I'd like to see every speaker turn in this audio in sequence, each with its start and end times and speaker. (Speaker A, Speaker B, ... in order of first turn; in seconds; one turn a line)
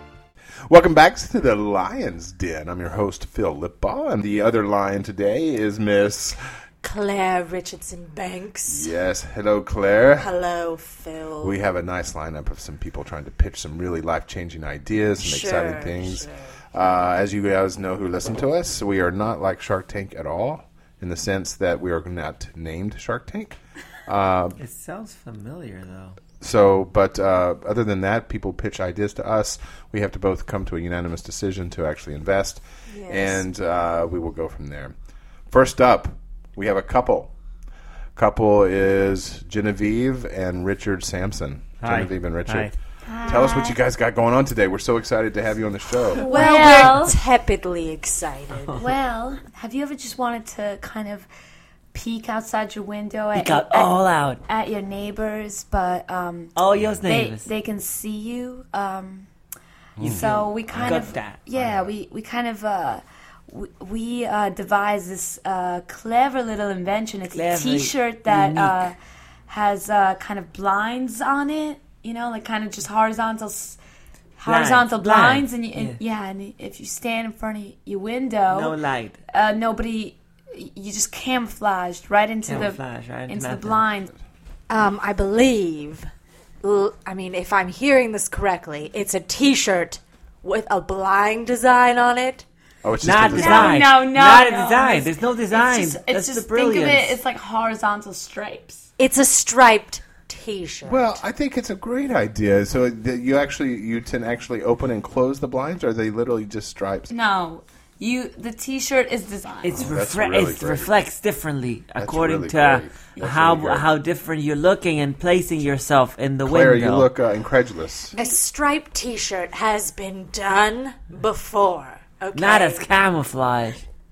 Speaker A: 0.7-6.4
Speaker B: 6.8-8.9
Speaker A: 8.7-10.3
Speaker B: 10.2-11.6
Speaker A: 11.4-24.6
Speaker B: 15.2-16.5
Speaker C: 24.6-26.2
Speaker A: 26.4-34.9
Speaker B: 32.9-33.5
Speaker A: 35.5-37.3
Speaker A: 38.1-42.7
Speaker C: 41.8-42.7
Speaker D: 43.1-43.8
Speaker A: 43.2-46.4
Speaker D: 46.1-47.2
Speaker B: 46.2-48.8
Speaker D: 48.8-51.3
Speaker D: 51.9-59.3
Speaker C: 53.3-54.4
Speaker C: 56.5-57.5
Speaker A: 60.0-61.8
Speaker D: 60.0-69.0
Speaker C: 60.0-61.4
Speaker C: 67.3-68.9
Speaker D: 69.5-73.8
Speaker D: 74.4-78.8
Speaker C: 74.5-76.0
Speaker C: 78.5-79.2
Speaker D: 79.3-84.2
Speaker C: 82.4-83.8
Speaker B: 84.7-86.1
Speaker B: 86.6-92.4
Speaker A: 92.8-93.8
Speaker C: 93.0-97.2
Speaker D: 93.3-98.8
Speaker B: 99.0-101.2
Speaker A: 100.8-107.1
Speaker D: 107.1-109.8
Speaker C: 109.6-117.1
Speaker A: 109.8-111.0
Speaker A: 112.0-113.9
Speaker A: 116.4-118.1
Speaker B: 118.2-122.8
Speaker C: 122.3-123.8